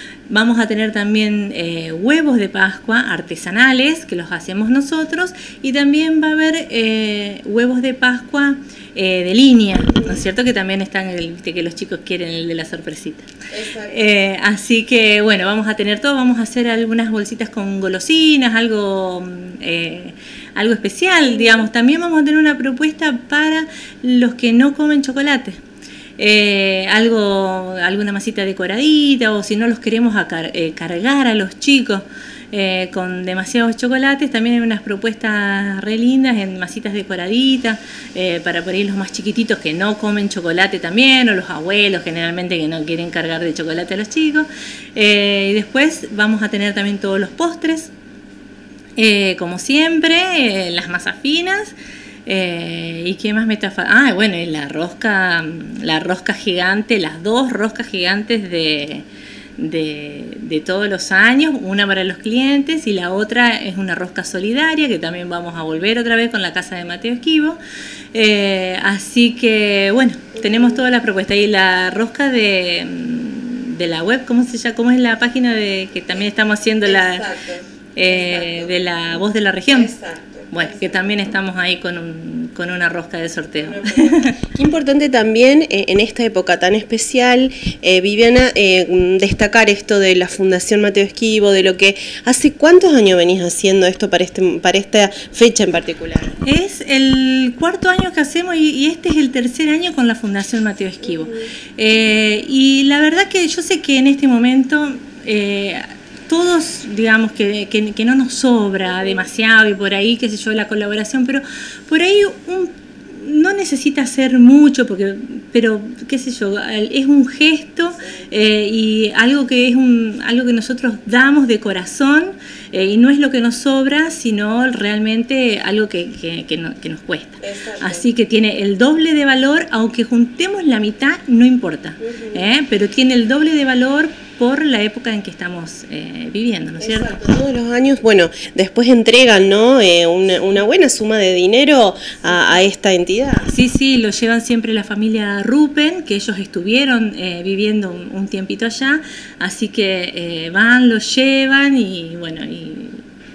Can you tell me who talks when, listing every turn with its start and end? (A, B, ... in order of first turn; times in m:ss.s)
0:00.3-0:13.3 A
0:13.5-0:14.0 B
0:13.8-0:25.6 A
0:26.2-0:47.9 A
0:49.0-0:51.7 A
0:52.3-0:59.0 A
0:59.6-1:07.6 A
1:08.1-1:17.3 A
1:10.4-1:10.8 B
1:16.8-1:18.8 B
1:17.9-1:19.9 A
1:19.7-1:21.0 B
1:20.5-1:24.4 A
1:23.6-1:36.4 B
1:36.4-2:17.2 A
2:07.4-2:08.0 B
2:12.1-2:12.3 B
2:16.8-2:23.5 B
2:23.5-2:33.0 A